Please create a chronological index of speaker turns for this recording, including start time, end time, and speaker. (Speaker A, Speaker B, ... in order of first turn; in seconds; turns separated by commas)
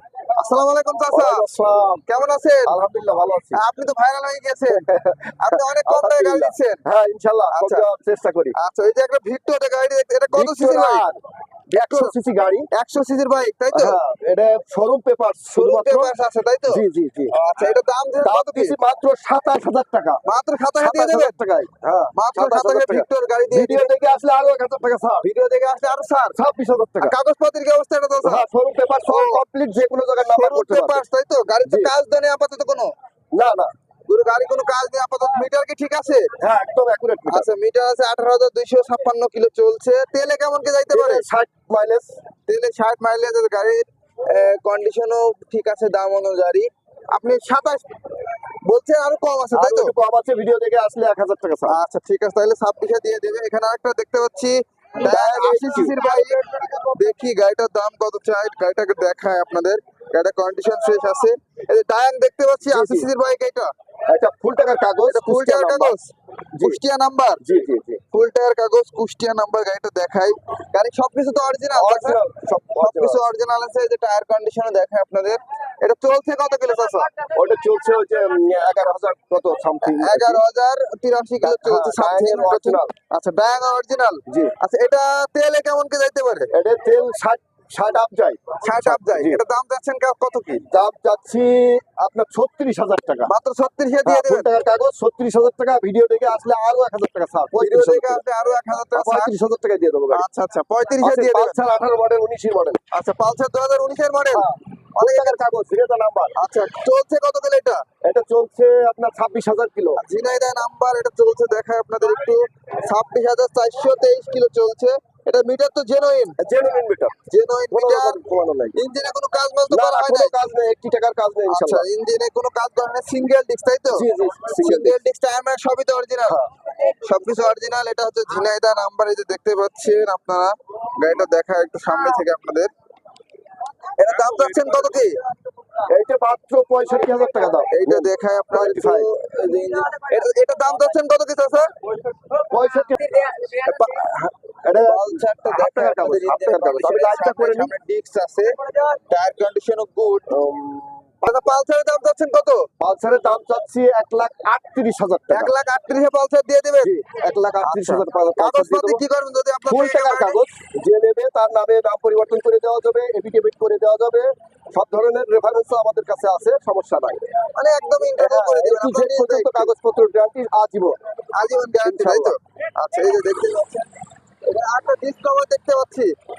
Speaker A: 0.3-1.4, Speaker B: 1.1-2.0, Speaker A: 2.1-2.8, Speaker B: 2.6-3.6, Speaker A: 3.5-4.8, Speaker B: 4.7-8.5, Speaker A: 5.4-6.8, Speaker A: 7.5-7.8, Speaker A: 8.6-11.0, Speaker B: 10.3-11.2, Speaker B: 11.7-12.7, Speaker A: 11.7-12.1, Speaker A: 12.7-14.0, Speaker B: 13.7-16.1, Speaker A: 15.6-18.7, Speaker B: 16.7-17.3, Speaker B: 18.2-20.2, Speaker A: 20.2-21.3, Speaker B: 20.8-25.3, Speaker A: 22.1-23.9, Speaker A: 25.2-26.4, Speaker B: 26.3-27.1, Speaker A: 27.0-28.4, Speaker B: 28.2-31.0, Speaker A: 29.1-29.4, Speaker A: 30.3-32.9, Speaker B: 31.6-31.9, Speaker B: 33.3-33.7, Speaker A: 34.1-36.3, Speaker B: 36.4-37.5, Speaker A: 37.3-41.2, Speaker B: 40.9-42.1, Speaker A: 42.5-47.8, Speaker A: 48.6-49.9, Speaker B: 49.5-51.8, Speaker A: 51.7-63.7, Speaker B: 55.0-56.0, Speaker B: 62.7-63.1, Speaker B: 64.1-65.9, Speaker A: 65.1-67.4, Speaker B: 67.4-68.0, Speaker A: 68.1-72.2, Speaker B: 71.7-73.2, Speaker A: 72.8-77.1, Speaker B: 77.3-80.4, Speaker A: 79.8-86.5, Speaker B: 81.4-82.9, Speaker B: 84.3-84.5, Speaker B: 86.5-89.4, Speaker A: 88.6-90.6, Speaker B: 90.7-93.3, Speaker A: 93.3-94.5, Speaker B: 94.0-98.2, Speaker A: 97.6-99.3, Speaker B: 98.9-100.2, Speaker A: 100.1-101.6, Speaker B: 101.0-102.8, Speaker A: 102.9-105.4, Speaker B: 104.3-106.4, Speaker A: 106.3-107.8, Speaker B: 108.0-110.0, Speaker A: 110.0-116.3, Speaker B: 116.4-117.2, Speaker A: 117.3-118.2, Speaker B: 117.7-118.8, Speaker A: 118.7-120.4, Speaker B: 119.7-121.8, Speaker A: 121.5-132.7, Speaker B: 123.9-125.0, Speaker A: 134.0-135.2, Speaker B: 135.9-139.1, Speaker A: 137.7-141.7, Speaker B: 142.3-147.7, Speaker A: 144.8-150.3, Speaker B: 150.3-151.1, Speaker A: 151.2-152.7, Speaker B: 152.8-155.5, Speaker A: 155.3-160.4, Speaker B: 156.8-159.0, Speaker B: 159.7-167.2, Speaker A: 167.5-169.7, Speaker B: 168.2-171.0, Speaker A: 171.3-173.9, Speaker B: 171.8-172.3, Speaker A: 174.4-176.1